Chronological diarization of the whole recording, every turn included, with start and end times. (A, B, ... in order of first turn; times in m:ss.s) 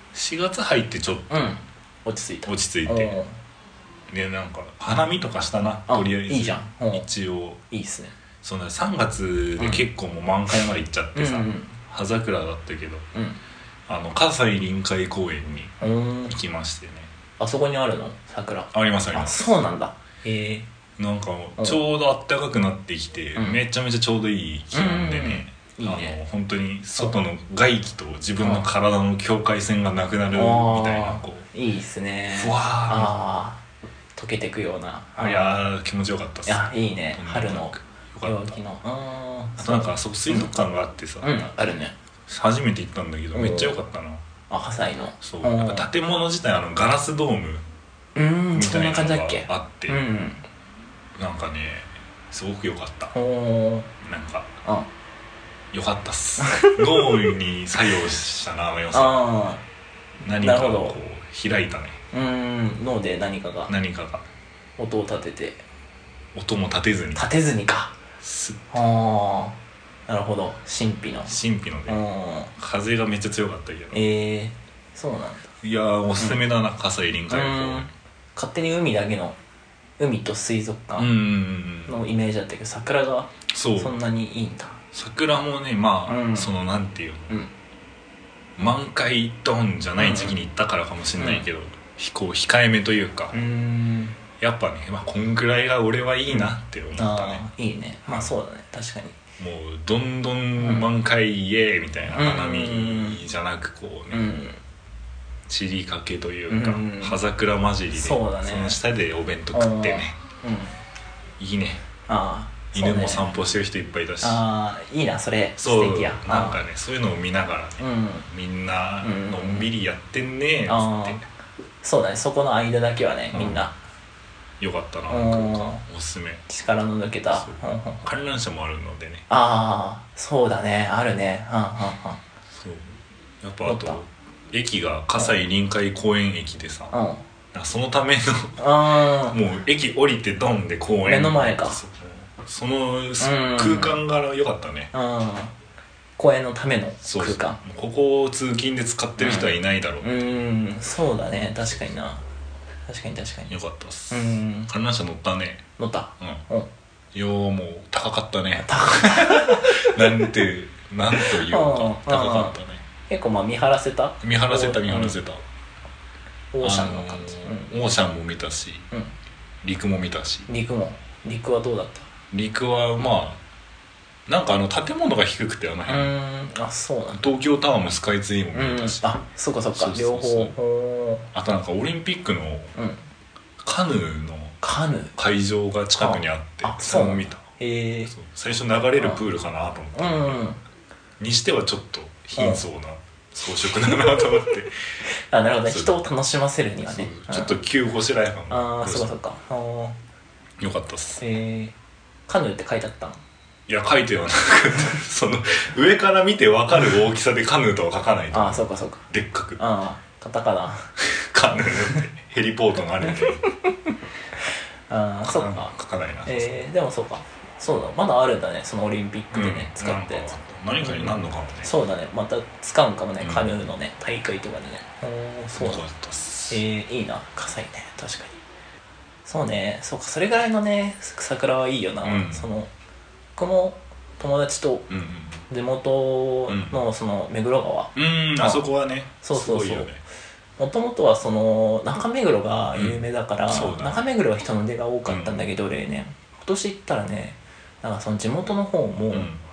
0:00.1-0:01.4 A
0:01.3-0:03.4 B
0:02.5-0:03.2 A
0:04.1-0:07.6 A
0:05.9-0:07.1 B
0:07.7-0:08.2 B
0:08.4-0:13.1 A
0:09.6-0:09.8 B
0:10.5-0:11.8 B
0:13.1-0:13.4 B
0:13.9-0:17.1 A
0:15.8-0:16.4 B
0:17.4-0:20.7 B
0:18.7-0:19.6 A
0:21.0-0:31.5 A
0:23.4-0:23.6 B
0:24.7-0:26.2 B
0:28.4-0:28.7 B
0:30.3-0:33.6 B
0:32.3-0:33.1 A
0:34.2-0:35.6 B
0:35.2-0:38.6 A
0:36.5-0:40.5 B
0:39.6-0:41.4 A
0:41.2-0:42.0 B
0:42.3-0:44.2 A
0:43.3-0:43.8 B
0:44.5-0:45.9 B
0:45.2-0:47.6 A
0:48.2-0:50.4 B
0:48.5-0:50.0 A
0:51.2-0:53.1 A
0:53.1-0:53.9 B
0:54.0-0:54.5 A
0:55.7-0:59.2 A
0:56.4-0:57.3 B
0:58.9-0:59.6 B
1:00.2-1:02.0 A
1:00.4-1:01.0 B
1:02.1-1:03.7 B
1:03.7-1:04.3 A
1:04.8-1:05.6 B
1:06.4-1:07.2 A
1:07.2-1:08.0 B
1:08.2-1:08.7 A
1:08.7-1:11.4 B
1:11.3-1:12.0 A
1:11.9-1:12.5 B
1:12.6-1:14.0 A
1:13.9-1:15.5 B
1:15.6-1:17.9 A
1:17.3-1:19.4 B
1:20.0-1:21.1 B
1:21.0-1:22.0 A
1:21.9-1:24.8 B
1:23.5-1:24.0 A
1:24.9-1:27.3 A
1:26.1-1:26.5 B
1:28.6-1:33.3 A
1:30.0-1:30.4 B
1:31.2-1:31.5 B
1:33.3-1:34.2 B
1:34.4-1:37.4 A
1:36.3-1:39.2 B
1:39.4-1:44.2 A
1:40.6-1:40.9 B
1:42.1-1:43.2 B
1:44.1-1:44.6 B
1:45.5-1:50.2 A
1:46.5-1:47.2 B
1:47.9-1:48.8 B
1:49.5-1:50.8 B
1:51.4-1:51.8 A
1:52.1-1:53.3 B
1:52.7-1:54.4 A
1:54.2-1:56.6 B
1:55.6-2:01.2 A
1:57.8-1:58.3 B
1:59.0-1:59.7 B
2:00.7-2:01.2 B
2:01.8-2:03.8 B
2:03.3-2:03.6 A
2:04.6-2:06.4 A
2:05.1-2:05.8 B
2:06.5-2:08.1 B
2:07.3-2:09.3 A
2:09.3-2:12.2 B
2:12.5-2:16.9 A
2:13.6-2:14.0 B
2:16.9-2:17.2 B
2:17.5-2:18.6 A
2:18.6-2:19.4 B
2:19.3-2:24.9 A
2:21.1-2:21.8 B
2:23.2-2:24.0 B
2:24.9-2:25.5 B
2:26.2-2:27.6 B
2:27.0-2:30.1 A
2:29.2-2:32.2 B
2:32.9-2:33.6 B
2:33.5-2:35.6 A
2:34.1-2:34.7 B
2:35.8-2:36.7 B
2:37.1-2:42.8 A
2:38.6-2:40.3 B
2:41.1-2:42.6 B
2:43.1-2:45.2 B
2:44.2-2:45.4 A
2:46.5-2:47.7 B
2:46.6-2:48.9 A
2:49.6-2:50.5 A
2:50.5-2:52.1 B
2:52.3-2:53.4 A
2:54.3-2:56.1 A
2:55.9-2:57.3 B
2:57.2-2:59.1 A
2:58.5-3:01.3 B
2:59.7-3:00.5 A
3:01.3-3:02.7 A
3:02.8-3:03.0 B
3:03.6-3:04.6 A
3:04.6-3:05.2 B
3:05.2-3:07.4 A
3:06.0-3:08.1 B
3:08.1-3:10.4 A
3:10.0-3:10.6 B
3:11.2-3:14.8 A
3:12.4-3:12.6 B
3:13.6-3:14.6 B
3:15.3-3:17.6 B
3:15.7-3:15.9 A
3:16.8-3:19.1 A
3:18.5-3:20.0 B
3:20.6-3:21.2 A
3:21.2-3:21.8 B
3:22.3-3:23.2 B
3:23.7-3:29.6 A
3:28.3-3:29.0 B
3:29.6-3:30.9 B
3:31.0-3:33.4 A
3:31.6-3:32.0 B
3:33.0-3:33.9 B
3:34.9-3:35.7 B
3:35.2-3:36.5 A
3:36.3-3:45.8 B
3:39.3-3:41.7 A
3:43.2-3:43.5 A
3:45.6-3:46.6 A
3:46.5-3:48.4 B
3:49.3-3:52.7 B
3:52.0-3:52.5 A
3:53.4-3:54.9 B
3:54.9-3:55.4 A
3:55.5-3:58.6 B
3:56.5-3:56.8 A
3:58.0-4:00.0 A
3:59.2-3:59.9 B
4:00.6-4:09.3 B
4:02.7-4:04.0 A
4:05.1-4:05.5 A
4:09.1-4:09.4 A